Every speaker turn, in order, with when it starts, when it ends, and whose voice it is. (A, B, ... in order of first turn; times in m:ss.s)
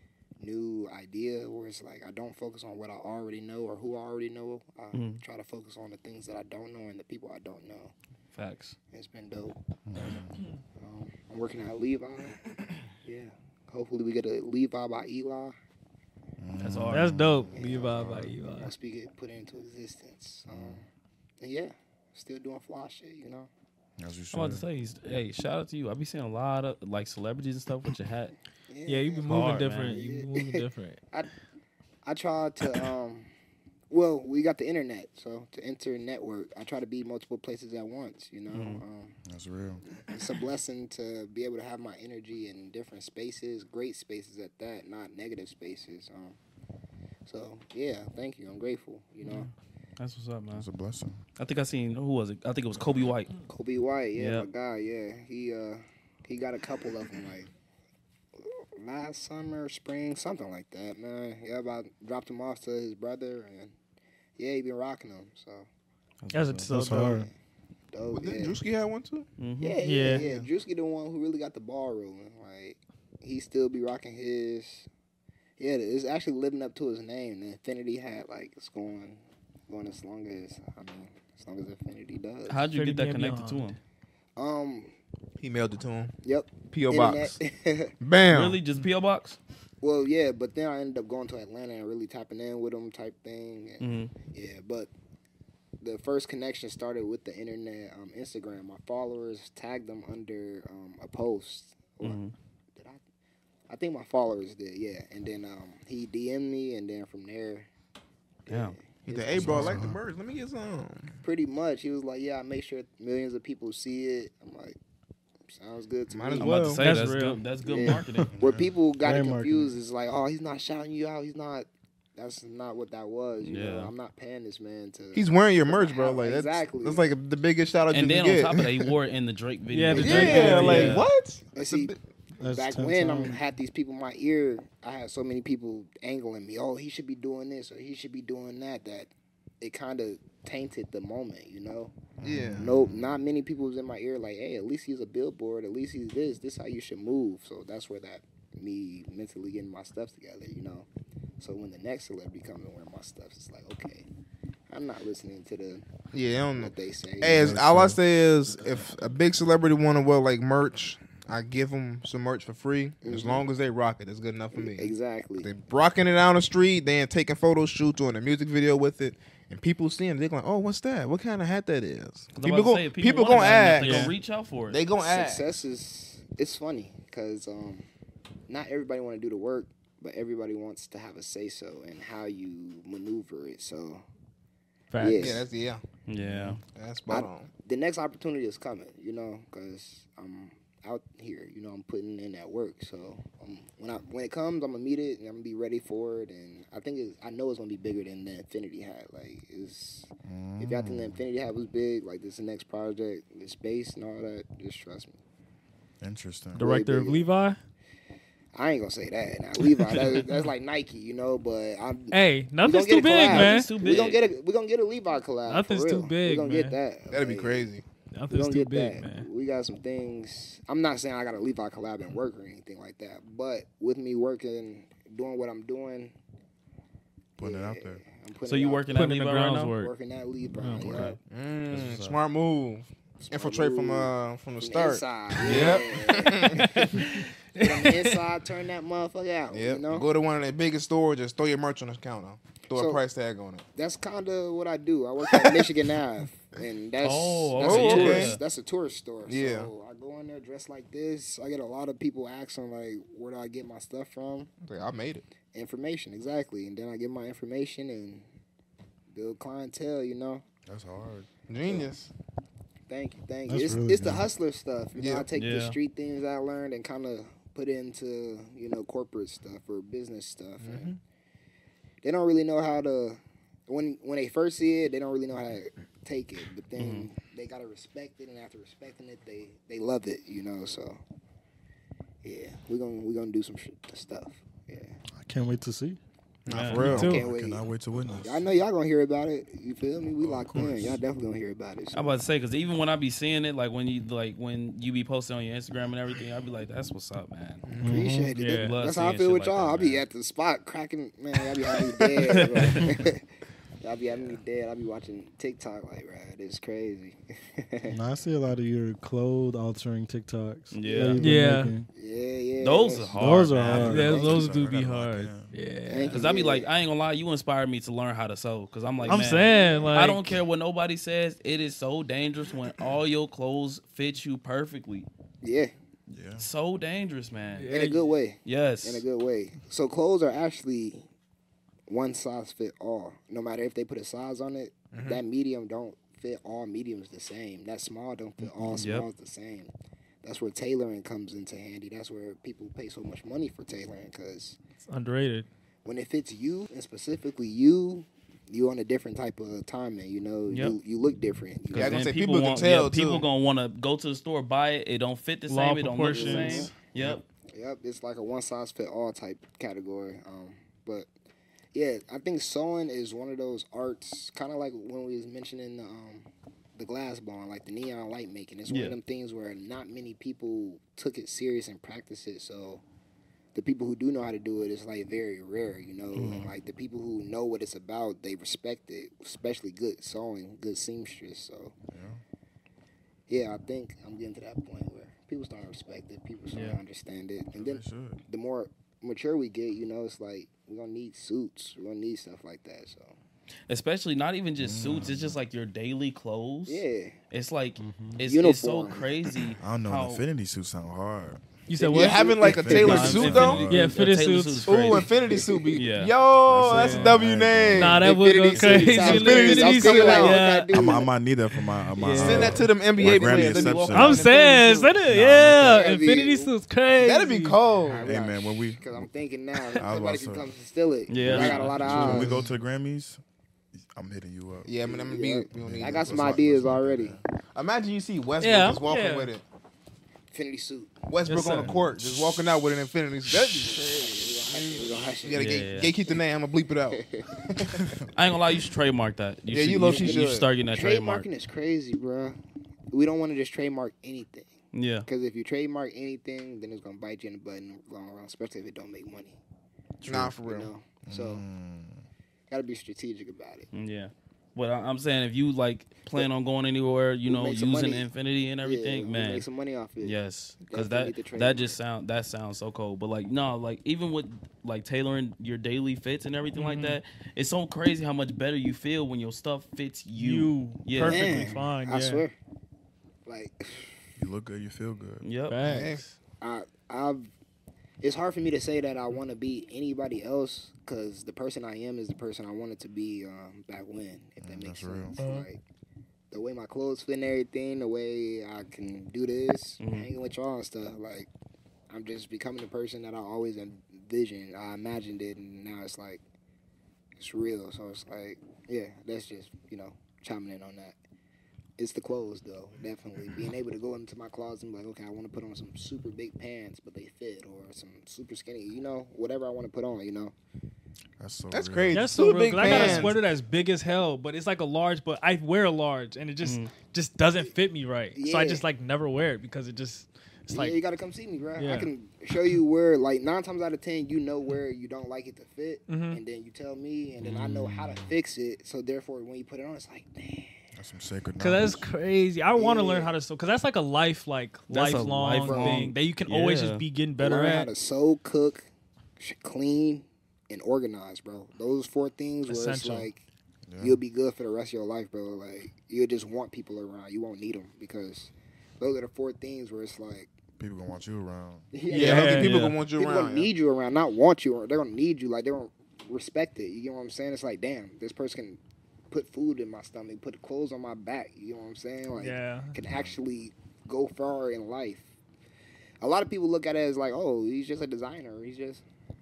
0:00.4-0:07.9 A
0:04.9-0:05.2 B
0:08.4-0:08.8 B
0:08.9-0:09.6 A
0:09.9-0:10.4 C
0:10.8-0:12.4 A
0:13.0-0:15.6 A
0:16.4-0:17.5 C
0:16.6-0:17.1 B
0:16.9-0:18.7 D
0:17.5-0:20.8 A
0:20.5-0:20.8 C
0:21.4-0:23.5 A
0:24.0-0:24.6 C
0:24.3-0:28.3 B
0:28.7-0:31.3 A
0:28.9-0:31.0 D
0:29.2-0:30.0 B
0:32.0-0:33.3 A
0:33.9-0:39.2 A
0:38.5-0:38.8 B
0:39.3-0:39.8 C
0:40.0-0:46.4 A
0:47.3-0:49.5 A
0:49.2-0:50.7 B
0:50.5-0:51.2 C
0:51.4-0:53.3 B
0:53.5-0:57.5 A
0:54.2-0:54.5 B
0:58.8-1:03.7 A
1:04.4-1:05.7 A
1:06.2-1:06.7 B
1:06.3-1:07.2 D
1:06.7-1:07.3 E
1:07.1-1:07.3 A
1:07.9-1:08.6 A
1:08.1-1:09.3 F
1:09.4-1:10.2 B
1:09.6-1:14.9 A
1:09.8-1:10.3 D
1:15.6-1:22.6 A
1:22.5-1:23.8 B
1:22.8-1:23.7 D
1:24.4-1:24.9 A
1:25.4-1:26.1 F
1:26.2-1:27.9 A
1:26.7-1:27.4 F
1:28.0-1:28.6 F
1:28.3-1:29.4 B
1:29.8-1:34.9 A
1:33.8-1:34.1 B
1:35.8-1:42.2 A
1:42.0-1:42.3 B
1:43.7-1:47.7 A
1:48.5-1:49.9 A
1:48.5-1:48.8 B
1:49.1-1:51.2 F
1:49.4-1:50.0 C
1:51.2-1:54.8 A
1:55.5-1:56.5 A
1:56.1-1:56.8 F
1:56.4-1:58.3 B
1:56.6-1:57.4 D
1:57.7-2:07.1 A
1:58.3-1:58.7 C
1:59.0-1:59.7 E
2:03.4-2:03.9 B
2:05.2-2:08.7 F
2:07.9-2:11.0 B
2:09.7-2:11.0 D
2:10.0-2:12.0 F
2:10.2-2:11.0 A
2:11.5-2:11.9 A
2:12.4-2:13.4 E
2:12.5-2:19.1 A
2:19.6-2:22.0 A
2:22.2-2:23.0 C
2:22.2-2:22.7 F
2:22.6-2:30.9 A
2:31.4-2:34.1 A
2:34.7-2:35.9 A
2:36.1-2:54.1 F
2:36.6-2:37.5 A
2:37.3-2:38.0 C
2:43.0-2:43.5 A
2:44.5-2:45.5 A
2:52.4-2:54.8 B
2:53.3-2:54.1 D
2:54.7-2:55.5 F
2:55.0-2:57.9 A
2:58.5-3:04.0 A
3:04.9-3:05.4 D
3:05.0-3:05.4 A
3:05.1-3:05.8 F
3:06.1-3:06.6 B
3:06.2-3:06.6 C
3:06.7-3:07.5 F
3:07.1-3:20.1 A
3:20.2-3:21.2 C
3:20.6-3:25.2 A
3:26.0-3:26.6 C
3:26.6-3:27.3 A
3:26.6-3:27.6 D
3:28.5-3:37.7 A
3:32.1-3:33.7 D
3:33.0-3:34.2 B
3:35.5-3:36.8 D
3:37.1-3:37.8 F
3:38.2-3:39.3 D
3:38.3-3:46.1 A
3:47.4-3:49.1 A
3:47.4-3:48.0 C
3:48.5-3:49.8 B
3:48.9-3:49.9 D
3:49.8-3:51.2 A
3:50.6-3:50.9 D
3:50.8-3:51.2 B
3:51.2-3:56.7 F
3:51.7-3:52.2 B
3:53.2-4:00.1 A
3:56.5-3:58.1 D
3:59.5-4:03.7 F
4:02.7-4:03.0 A
4:03.8-4:14.5 A
4:07.0-4:08.4 B
4:07.6-4:08.4 F
4:09.3-4:09.7 F
4:14.6-4:15.2 F
4:15.5-4:18.2 A
4:19.1-4:20.4 A
4:20.7-4:21.3 C
4:21.5-4:22.1 F
4:21.6-4:21.9 A
4:22.9-4:31.0 A
4:23.5-4:24.3 E
4:25.0-4:25.3 F
4:25.3-4:25.8 B
4:30.6-4:31.0 F
4:32.0-4:41.0 A
4:36.8-4:37.1 B
4:42.2-4:45.0 A
4:45.1-4:46.0 E
4:46.5-4:47.1 F
4:46.5-4:46.9 B
4:46.7-4:48.4 C
4:46.8-4:47.2 D
4:46.9-4:52.2 A
4:50.2-4:51.0 C
4:51.9-4:57.6 B
4:57.7-4:58.0 F
4:57.8-4:58.3 E
4:57.8-5:03.2 A
4:58.4-4:58.8 D
4:58.6-5:00.0 B
5:02.3-5:02.9 D
5:03.8-5:08.0 A
5:07.9-5:11.9 E
5:10.7-5:11.3 B
5:11.2-5:11.7 D
5:11.9-5:13.3 A
5:12.6-5:14.0 B
5:13.2-5:14.2 E
5:13.6-5:15.5 C
5:13.9-5:16.2 D
5:13.9-5:14.5 A
5:15.9-5:16.7 A
5:16.1-5:25.1 B
5:19.0-5:19.8 A
5:19.1-5:20.4 D
5:25.4-5:25.7 A
5:26.1-5:26.4 C
5:26.4-5:27.7 B
5:27.6-5:28.0 D
5:27.7-5:31.0 A
5:28.4-5:29.0 B
5:31.9-5:39.7 A
5:34.9-5:35.2 F
5:38.8-5:39.1 B
5:40.2-5:44.6 A
5:44.8-5:45.5 D
5:45.8-5:52.1 A
5:50.5-5:50.8 B
5:51.7-5:57.2 B
5:51.8-5:53.3 F
5:55.5-5:56.7 D
5:56.2-5:56.7 A
5:57.5-6:01.1 A
6:01.7-6:12.8 A
6:08.7-6:09.0 B
6:13.5-6:21.8 A
6:16.1-6:16.5 B
6:21.9-6:22.2 C
6:23.3-6:33.2 A
6:27.6-6:28.2 C
6:33.7-6:40.2 B
6:34.6-6:35.4 C
6:36.7-6:37.2 A
6:37.8-6:38.2 E
6:38.2-6:39.0 A
6:39.6-6:41.4 C
6:41.7-6:45.0 D
6:41.8-6:43.1 A
6:41.9-6:43.7 F
6:42.4-6:44.0 C
6:42.8-6:45.1 B
6:44.6-6:50.5 F
6:45.2-6:45.8 A
6:45.7-6:46.1 B
6:46.4-6:48.1 C
6:46.7-6:47.2 D
6:47.8-6:51.0 D
6:48.0-6:51.1 A
6:50.7-6:54.3 C
6:51.5-6:52.7 D
6:52.1-6:54.3 F
6:53.2-6:54.9 B
6:53.8-6:57.6 D
6:55.0-6:55.9 C
6:55.5-6:56.5 A
6:57.0-6:58.1 F
6:58.0-6:59.1 C
6:58.0-7:02.5 A
6:59.8-7:00.5 C
7:01.1-7:02.3 B
7:01.3-7:01.7 D
7:01.3-7:03.2 C
7:03.9-7:04.7 C
7:04.6-7:06.1 F
7:04.8-7:07.2 A
7:05.5-7:07.2 C
7:07.5-7:09.4 F
7:08.4-7:09.3 D
7:10.3-7:11.0 A
7:11.1-7:17.0 F
7:11.3-7:11.8 D
7:11.6-7:12.2 C
7:13.4-7:15.6 A
7:15.4-7:15.9 B
7:16.9-7:17.3 A
7:18.1-7:21.3 B
7:19.5-7:20.5 F
7:19.9-7:22.4 A
7:22.9-7:24.5 A
7:24.7-7:25.1 B
7:25.1-7:29.4 A
7:30.0-7:30.7 F
7:30.3-7:31.4 A
7:31.0-7:32.1 C
7:32.5-7:33.7 A
7:33.7-7:39.5 B
7:37.3-7:38.1 A
7:38.6-7:40.1 A
7:40.0-7:51.5 B
7:40.7-7:41.8 A
7:46.6-7:47.0 D
7:50.2-7:52.2 D
7:51.0-7:52.4 A
7:53.3-7:54.0 A
7:54.2-7:55.3 C
7:55.2-7:55.6 B
7:55.5-7:56.1 D
7:55.6-7:56.0 F
7:56.4-7:57.3 A
7:58.0-8:05.6 A
8:04.4-8:05.2 C
8:05.2-8:05.5 D
8:06.3-8:11.3 A
8:09.8-8:10.1 B
8:11.9-8:16.2 A
8:17.2-8:21.0 A
8:21.8-8:30.3 A
8:31.2-8:32.2 C
8:31.5-8:33.2 F
8:31.9-8:40.8 D
8:32.6-8:33.1 A
8:36.4-8:36.7 B
8:38.2-8:38.6 A
8:40.5-8:50.5 A
8:41.6-8:41.9 D
8:45.9-8:46.2 D
8:50.8-8:51.9 C
8:51.4-8:57.7 D
8:52.6-8:53.1 A
8:54.7-8:56.8 B
8:55.4-8:56.0 A
8:57.2-8:58.7 A
8:59.2-9:03.2 A
9:02.5-9:03.1 D
9:03.7-9:04.0 C
9:03.8-9:10.3 A
9:10.6-9:11.7 C
9:11.7-9:18.6 A
9:11.9-9:12.8 D
9:11.9-9:13.5 F
9:19.1-9:25.1 A
9:22.2-9:22.8 D
9:26.0-9:28.8 A